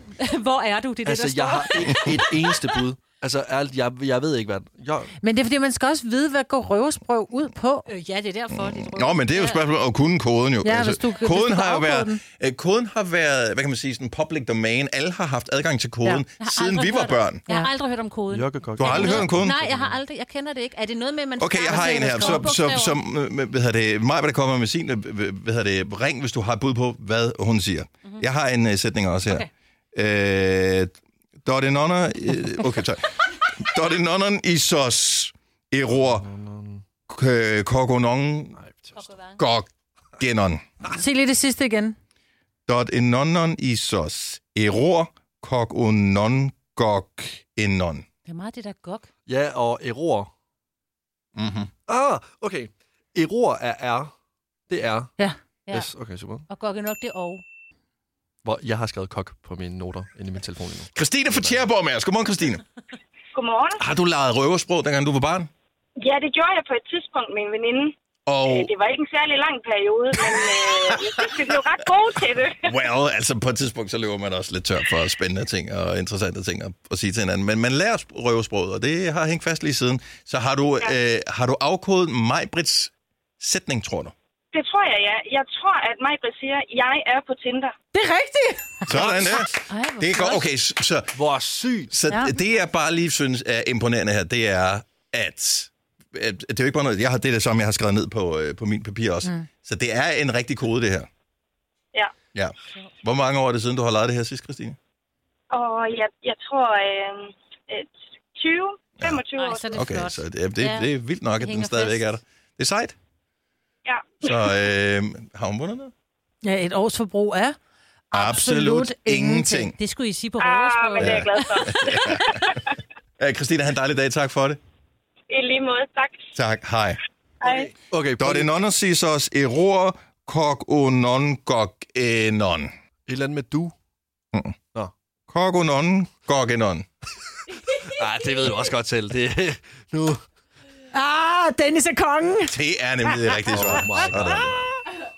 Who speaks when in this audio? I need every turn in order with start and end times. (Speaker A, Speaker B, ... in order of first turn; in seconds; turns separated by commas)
Speaker A: 0.2-2.2, Speaker B: 1.0-5.1, Speaker C: 5.2-7.9, Speaker A: 7.9-9.7, Speaker D: 8.5-17.4, Speaker C: 10.6-12.2, Speaker A: 16.4-23.0, Speaker B: 18.3-20.0, Speaker D: 18.8-19.6, Speaker D: 21.4-30.9, Speaker D: 31.4-36.3, Speaker B: 35.9-36.8, Speaker D: 37.1-38.6, Speaker B: 38.6-39.0, Speaker A: 39.0-39.4, Speaker D: 39.3-40.6, Speaker C: 40.9-42.0, Speaker D: 42.7-48.0, Speaker A: 48.2-49.1, Speaker B: 49.2-50.3, Speaker D: 51.4-51.7, Speaker B: 51.9-54.1, Speaker B: 54.7-55.1, Speaker B: 55.7-56.4, Speaker A: 56.5-57.4, Speaker B: 58.4-61.6, Speaker D: 60.9-62.6, Speaker E: 63.3-63.8, Speaker D: 63.8-65.5, Speaker E: 66.0-72.8, Speaker D: 68.3-68.7, Speaker D: 70.1-84.1, Speaker E: 84.5-87.7, Speaker C: 87.9-88.8, Speaker D: 88.9-91.2, Speaker A: 89.7-90.5, Speaker B: 91.1-91.9, Speaker D: 91.9-101.1, Speaker C: 92.1-92.3, Speaker D: 102.3-104.8, Speaker E: 105.5-109.8, Speaker D: 109.0-113.0, Speaker A: 109.3-112.1, Speaker E: 113.8-114.5, Speaker D: 114.2-115.9, Speaker C: 116.4-117.6, Speaker C: 118.1-119.7, Speaker D: 118.1-119.8, Speaker A: 119.8-121.9, Speaker E: 120.4-122.6, Speaker D: 121.0-122.6, Speaker D: 123.2-124.6, Speaker E: 125.3-126.2, Speaker D: 126.3-127.0, Speaker E: 127.4-127.7, Speaker B: 127.4-128.6, Speaker D: 128.2-132.7, Speaker B: 133.1-133.7, Speaker D: 135.3-136.9, Speaker B: 137.8-140.2, Speaker C: 140.9-144.6, Speaker D: 142.5-144.5, Speaker B: 143.5-144.7